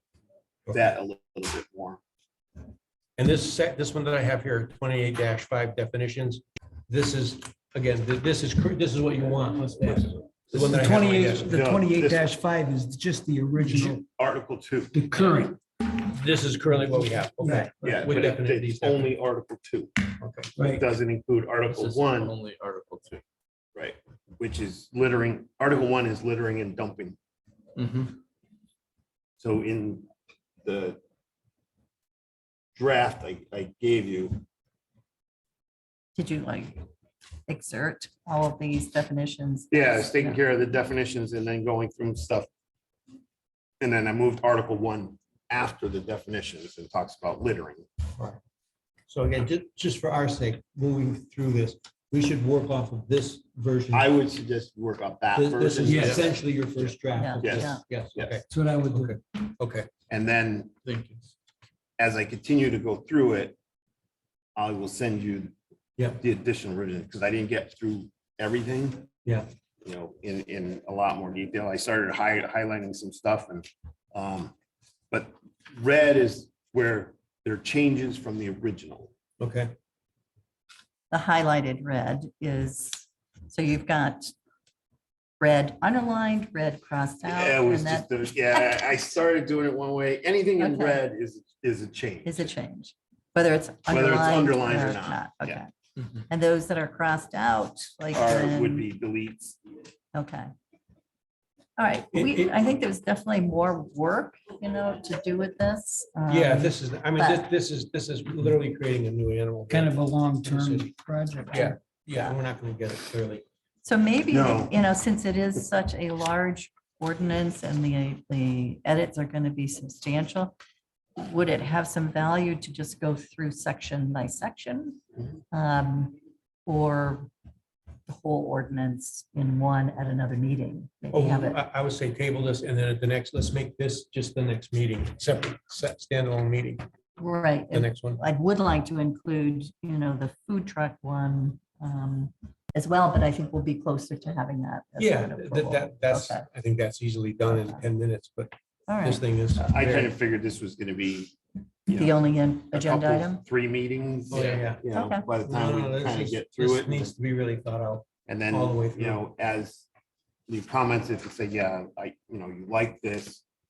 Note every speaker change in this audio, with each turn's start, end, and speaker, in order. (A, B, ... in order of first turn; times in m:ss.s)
0:00.7-0:02.0 A
0:03.2-0:11.6 B
0:10.5-0:14.0 C
0:11.4-0:12.3 A
0:13.8-0:15.0 A
0:14.9-0:15.6 C
0:16.0-0:19.1 B
0:17.4-0:17.7 C
0:17.8-0:22.3 A
0:20.2-0:20.5 B
0:20.6-0:20.8 C
0:21.7-0:23.2 D
0:23.7-0:27.2 A
0:27.8-0:28.1 D
0:29.4-0:30.1 A
0:30.6-0:31.0 A
0:32.7-0:34.4 A
0:36.2-0:36.8 E
0:37.5-0:40.4 E
0:39.7-0:42.5 A
0:43.8-0:47.9 A
0:49.1-0:54.1 B
0:53.9-0:58.4 A
0:55.3-0:59.9 B
0:55.9-0:56.3 D
0:57.1-0:57.8 E
0:58.5-0:59.2 C
1:00.1-1:00.7 A
1:00.8-1:01.3 D
1:02.0-1:03.6 A
1:04.6-1:05.5 A
1:06.2-1:09.1 A
1:09.8-1:14.5 A
1:15.1-1:19.1 A
1:19.4-1:19.7 B
1:21.1-1:24.3 E
1:25.4-1:28.1 E
1:27.2-1:32.5 A
1:30.6-1:31.0 E
1:32.2-1:35.7 E
1:33.9-1:35.6 A
1:36.3-1:38.9 E
1:38.1-1:39.6 A
1:40.1-1:40.5 E
1:41.8-1:47.5 E
1:42.1-1:42.5 B
1:46.3-1:50.9 B
1:49.7-1:51.8 C
1:51.5-1:53.4 B
1:52.1-1:52.4 E
1:53.8-2:00.6 E
1:54.3-1:54.8 A
2:01.2-2:05.0 E
2:05.5-2:07.3 E
2:08.1-2:11.6 E
2:11.1-2:16.8 B
2:17.2-2:26.4 E
2:17.7-2:18.2 B
2:25.0-2:30.1 B
2:27.5-2:27.8 E
2:28.9-2:29.2 E
2:29.6-2:31.3 A
2:31.9-2:37.1 A
2:31.9-2:33.4 E
2:34.3-2:34.8 B
2:34.3-2:34.7 D
2:34.9-2:35.3 E
2:35.3-2:39.2 B
2:38.3-2:39.9 A
2:40.5-2:43.4 A